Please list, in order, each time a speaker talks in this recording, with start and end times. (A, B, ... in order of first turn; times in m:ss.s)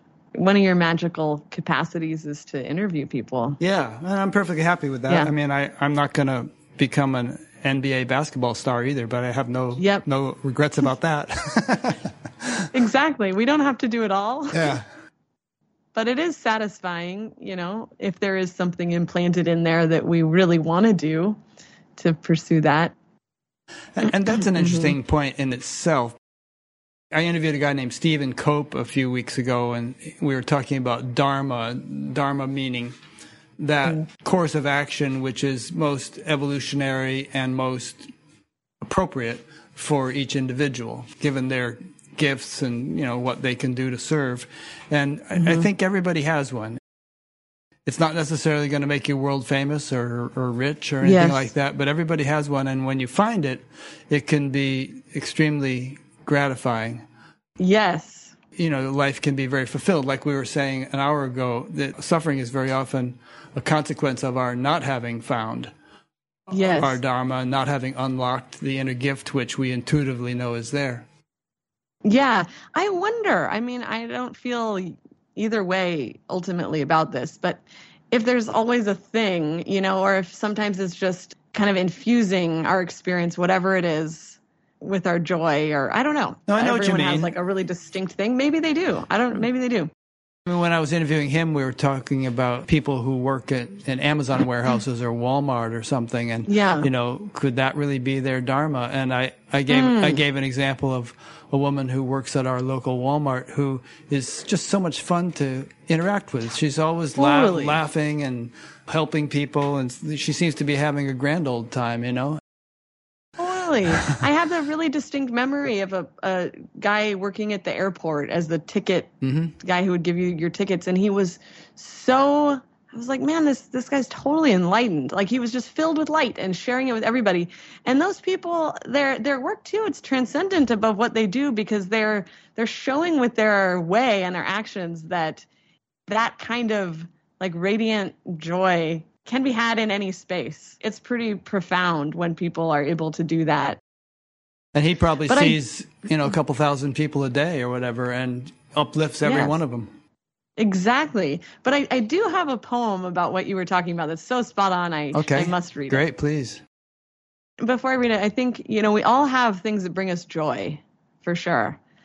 0:00.4-0:03.6 A
0:03.6-0:12.7 B
0:09.8-0:10.0 A
0:12.7-0:14.8 A
0:14.5-0:14.9 B
0:15.9-0:21.4 A
0:22.0-0:22.9 A
0:24.0-0:26.2 B
0:24.4-0:25.0 A
0:27.1-0:33.0 B
0:33.6-0:38.1 B
0:38.8-0:46.8 B
0:45.4-0:45.7 A
0:47.8-0:57.0 B
0:51.0-0:51.5 A
0:57.6-0:58.3 A
0:58.6-1:05.7 B
1:06.5-1:07.0 A
1:06.6-1:11.1 B
1:12.0-1:29.9 A
1:26.5-1:27.3 B
1:30.5-1:52.4 B
1:36.5-1:36.9 A
1:39.7-1:40.2 A
1:47.2-1:47.8 A
1:53.4-2:15.5 A
1:59.2-1:59.6 B
2:16.1-2:23.8 A
2:24.7-2:29.9 B
2:25.3-2:25.6 A
2:29.2-2:29.6 A
2:30.6-2:36.0 A
2:35.1-2:36.6 B
2:37.6-2:41.8 A